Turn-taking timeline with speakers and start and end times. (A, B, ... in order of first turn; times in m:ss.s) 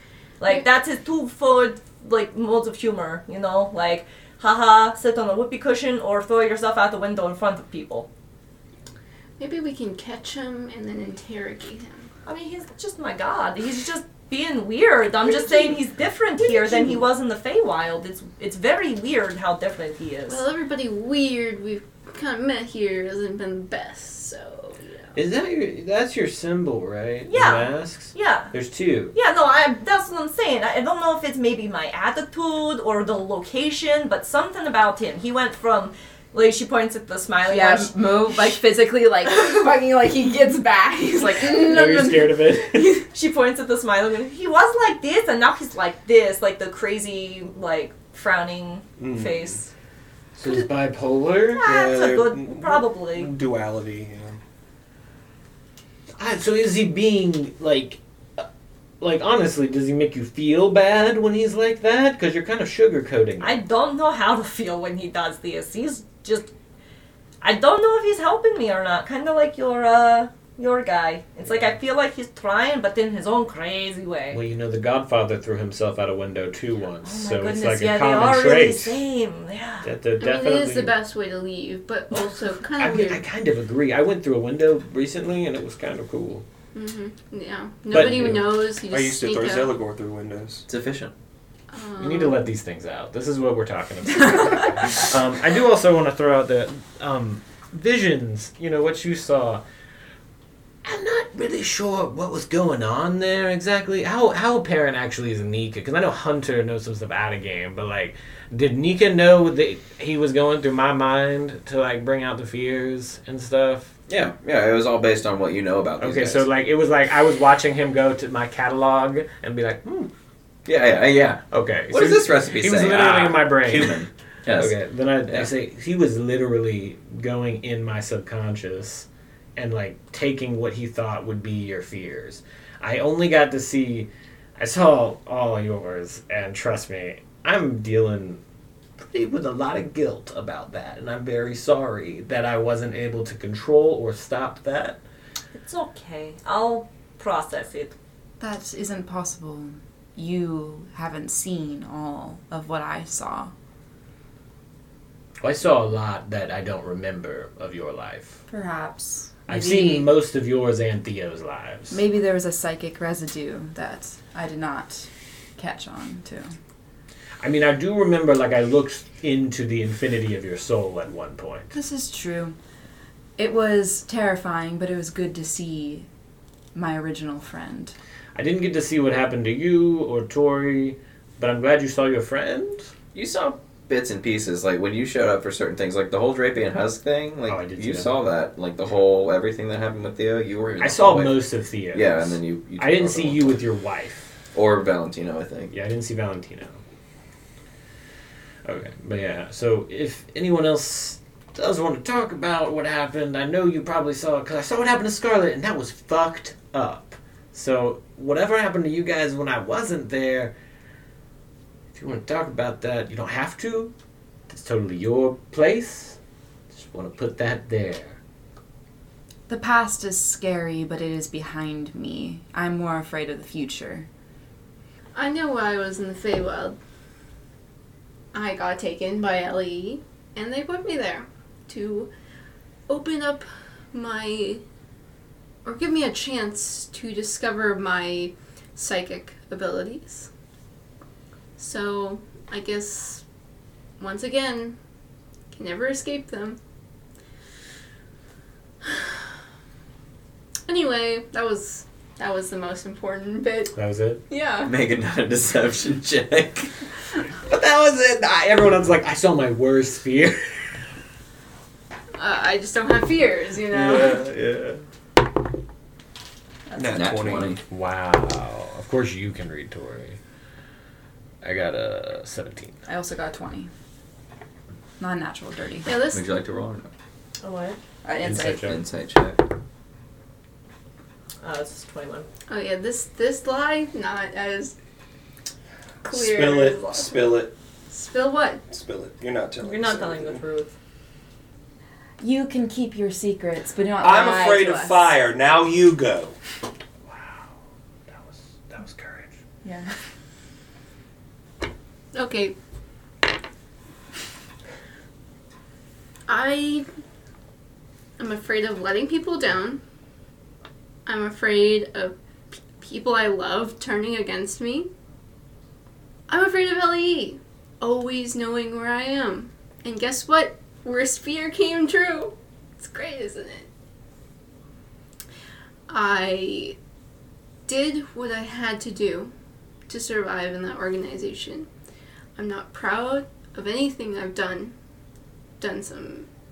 0:00.4-0:08.1 A
0:09.4-0:12.1 B
0:12.2-0:20.4 A
0:15.2-0:15.8 B
0:16.4-0:17.0 B
0:20.3-0:24.9 B
0:25.1-0:29.1 C
0:27.2-0:28.5 A
0:29.1-0:38.2 A
0:37.4-0:43.0 D
0:41.4-0:43.0 C
0:43.1-0:49.7 A
0:49.0-0:49.6 E
0:50.4-0:51.7 C
0:51.5-0:53.3 A
0:51.6-0:54.4 E
0:56.2-0:58.4 C
0:59.0-1:03.6 C
1:03.4-1:06.5 A
1:07.4-1:14.4 A
1:14.3-1:19.0 C
1:17.0-1:19.9 A
1:19.8-1:20.9 C
1:20.2-1:23.2 B
1:22.8-1:26.4 C
1:26.7-1:29.7 B
1:27.9-1:28.5 C
1:28.0-1:30.6 E
1:30.7-1:31.1 F
1:31.7-1:32.4 B
1:32.0-1:39.6 C
1:40.8-1:53.9 C
1:54.1-1:56.5 F
1:56.0-2:00.1 C
2:00.6-2:05.5 F
2:01.5-2:18.4 C
2:19.0-2:25.0 C
2:25.5-2:27.9 A
2:28.4-2:33.5 D
2:35.4-2:38.4 C
2:38.5-2:40.1 D
2:39.5-2:42.0 C
2:41.9-2:46.6 D
2:47.4-2:51.7 C
2:51.7-2:52.6 D
2:53.4-2:56.1 D
2:56.7-2:57.9 D
2:58.3-3:02.9 C
3:03.1-3:13.6 F
3:07.4-3:08.2 C
3:10.8-3:14.3 C
3:14.5-3:15.7 F
3:15.7-3:16.8 C
3:18.6-3:30.5 C
3:31.9-3:33.9 C
3:34.5-3:36.2 C
3:36.7-3:38.2 C
3:39.5-3:44.1 D
3:45.1-3:46.8 B
3:48.3-3:52.1 B
3:52.9-3:54.6 B
3:55.6-4:00.3 B
4:01.6-4:03.2 B
4:04.0-4:04.8 B
4:05.5-4:06.6 B
4:10.7-4:13.7 B
4:13.7-4:14.2 C
4:14.3-4:14.7 B
4:14.6-4:16.7 F
4:17.4-4:20.7 C
4:22.2-4:24.2 B
4:23.7-4:24.8 C
4:26.8-4:27.5 E
4:26.9-4:27.6 F
4:27.4-4:30.2 C
4:31.4-4:32.7 C
4:32.9-4:33.7 D
4:35.0-4:35.9 D
4:35.8-4:36.2 B
4:36.0-4:36.9 F
4:37.4-4:37.8 A
4:38.0-4:38.7 D
4:38.2-4:38.8 C
4:38.4-4:39.4 F
4:41.4-4:42.3 A
4:42.5-4:44.7 B
4:46.0-4:47.3 B
4:46.0-4:47.5 E
4:47.9-4:48.6 B
4:48.7-4:50.4 E
4:49.6-4:50.7 A
4:52.2-4:55.1 D
4:54.0-4:56.3 E
4:57.1-4:57.4 C
4:58.1-4:59.3 C
4:59.6-4:59.9 D
5:02.1-5:02.5 B
5:06.3-5:06.8 B
5:08.2-5:09.8 B
5:11.0-5:14.9 B
5:16.3-5:23.7 B
5:25.9-5:26.8 B
5:27.7-5:29.3 B
5:29.9-5:31.7 B
5:32.4-5:34.7 B
5:35.6-5:36.3 B